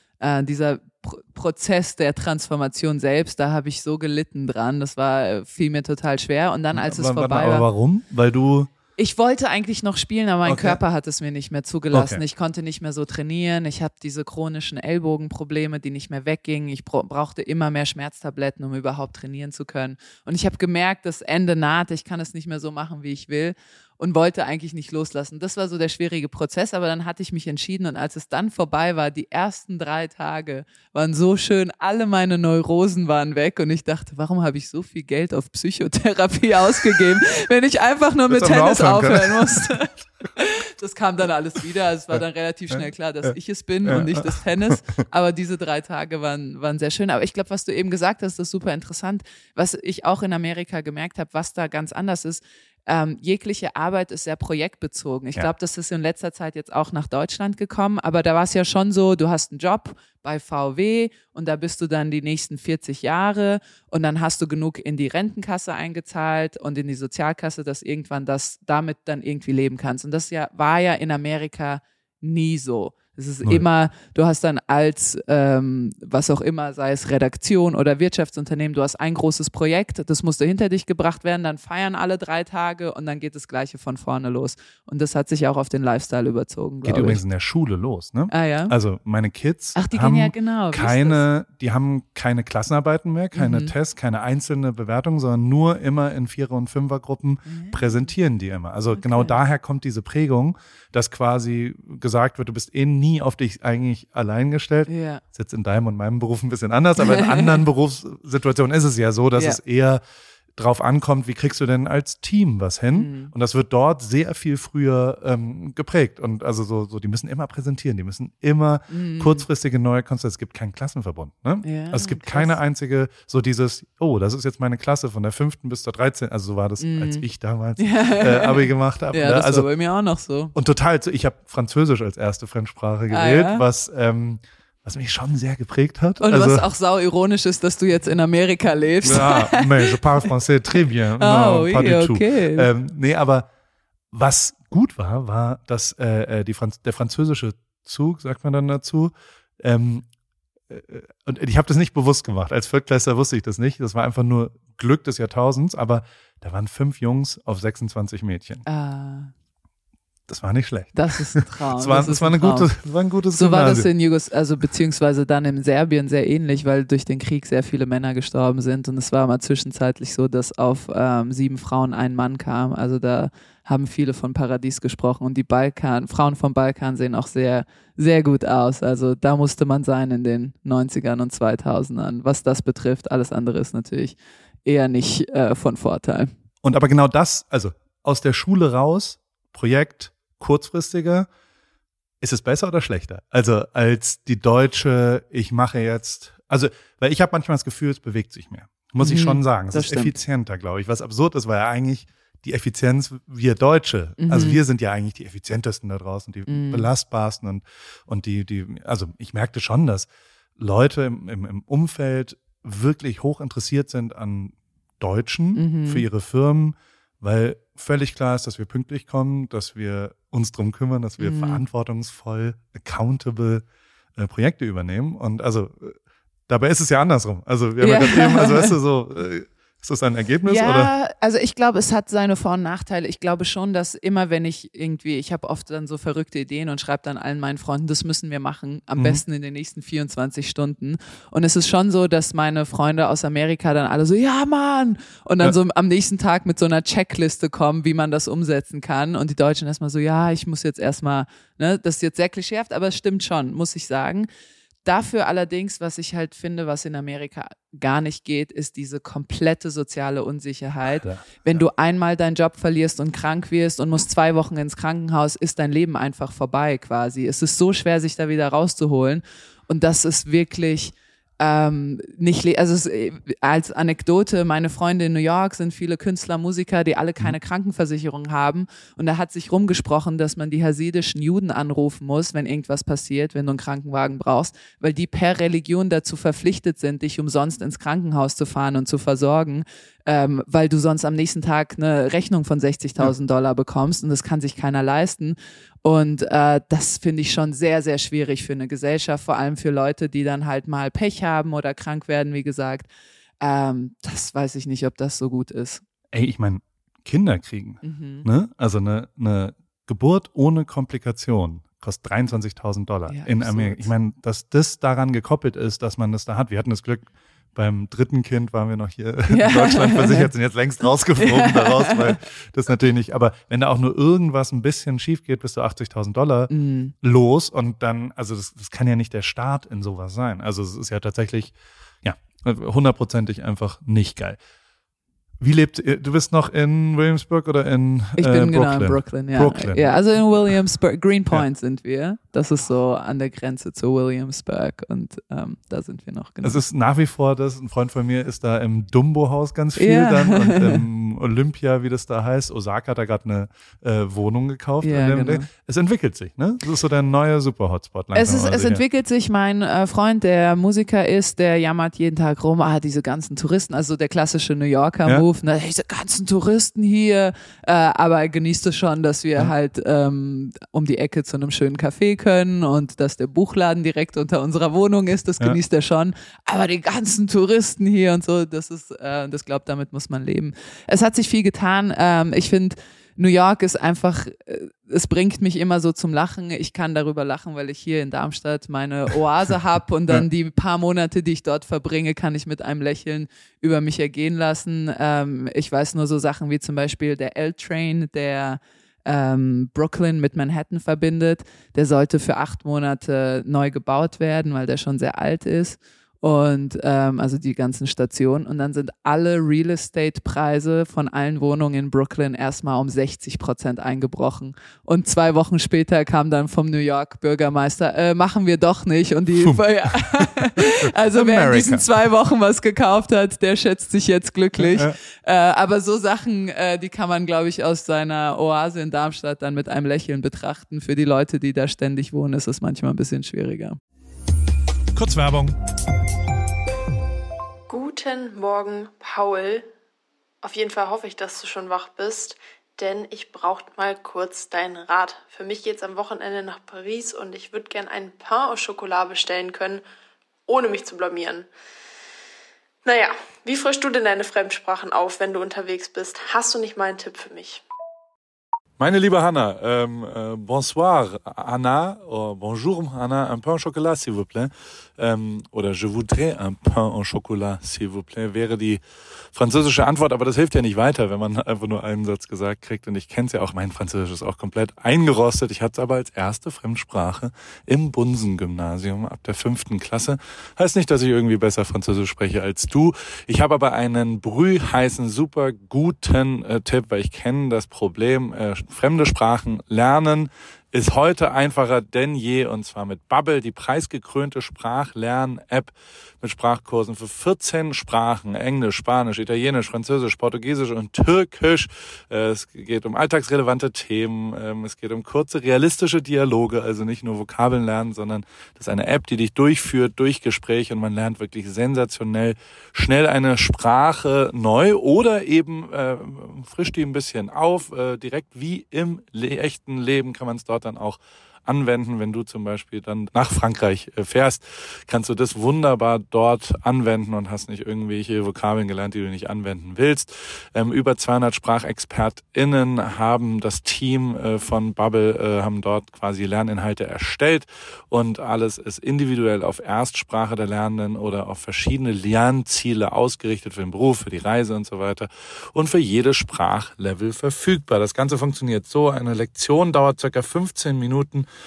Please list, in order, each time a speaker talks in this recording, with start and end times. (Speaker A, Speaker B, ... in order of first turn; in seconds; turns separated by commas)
Speaker A: 0.2-7.7, Speaker B: 6.7-8.7, Speaker A: 9.0-87.2, Speaker B: 10.4-10.8, Speaker B: 11.9-12.2, Speaker B: 38.3-40.0, Speaker B: 42.7-43.3, Speaker B: 43.9-45.0, Speaker B: 86.8-110.0, Speaker A: 88.3-88.7, Speaker A: 89.8-91.2, Speaker A: 93.3-93.7, Speaker A: 97.5-97.8, Speaker A: 99.0-99.4, Speaker A: 104.9-105.2, Speaker A: 107.0-107.6, Speaker B: 110.6-129.7, Speaker A: 113.0-113.3, Speaker A: 118.9-119.4, Speaker A: 121.6-122.6, Speaker A: 126.8-127.2, Speaker A: 127.8-130.5, Speaker B: 130.5-136.7, Speaker A: 133.1-133.6, Speaker A: 136.2-139.9, Speaker B: 139.0-143.5, Speaker A: 141.2-142.7, Speaker B: 144.1-150.1, Speaker B: 150.7-158.7, Speaker A: 158.7-159.3, Speaker B: 160.3-163.9, Speaker A: 160.9-162.7, Speaker A: 163.3-186.3, Speaker B: 186.6-191.3, Speaker B: 192.2-223.6, Speaker A: 199.0-200.2, Speaker A: 204.2-204.6, Speaker A: 206.5-206.9, Speaker A: 215.6-216.1, Speaker A: 221.2-221.6, Speaker B: 224.2-226.0, Speaker B: 226.5-230.9, Speaker A: 227.8-228.8, Speaker A: 230.4-254.3, Speaker B: 239.0-239.2, Speaker A: 254.8-302.9, Speaker B: 260.9-261.4, Speaker A: 303.4-305.8, Speaker B: 306.1-334.4, Speaker A: 307.8-308.3, Speaker A: 313.1-313.9, Speaker A: 319.3-320.3, Speaker A: 321.2-322.2, Speaker A: 326.5-326.9, Speaker B: 335.4-340.0, Speaker A: 338.2-346.6, Speaker B: 346.4-358.8, Speaker A: 349.8-350.8, Speaker A: 354.8-355.5, Speaker A: 358.1-433.8, Speaker B: 419.4-421.9, Speaker B: 424.6-425.0, Speaker B: 434.9-435.6, Speaker C: 437.7-439.7, Speaker C: 440.4-449.8, Speaker C: 450.5-451.5, Speaker C: 452.9-457.6, Speaker B: 458.8-468.8, Speaker B: 469.3-551.3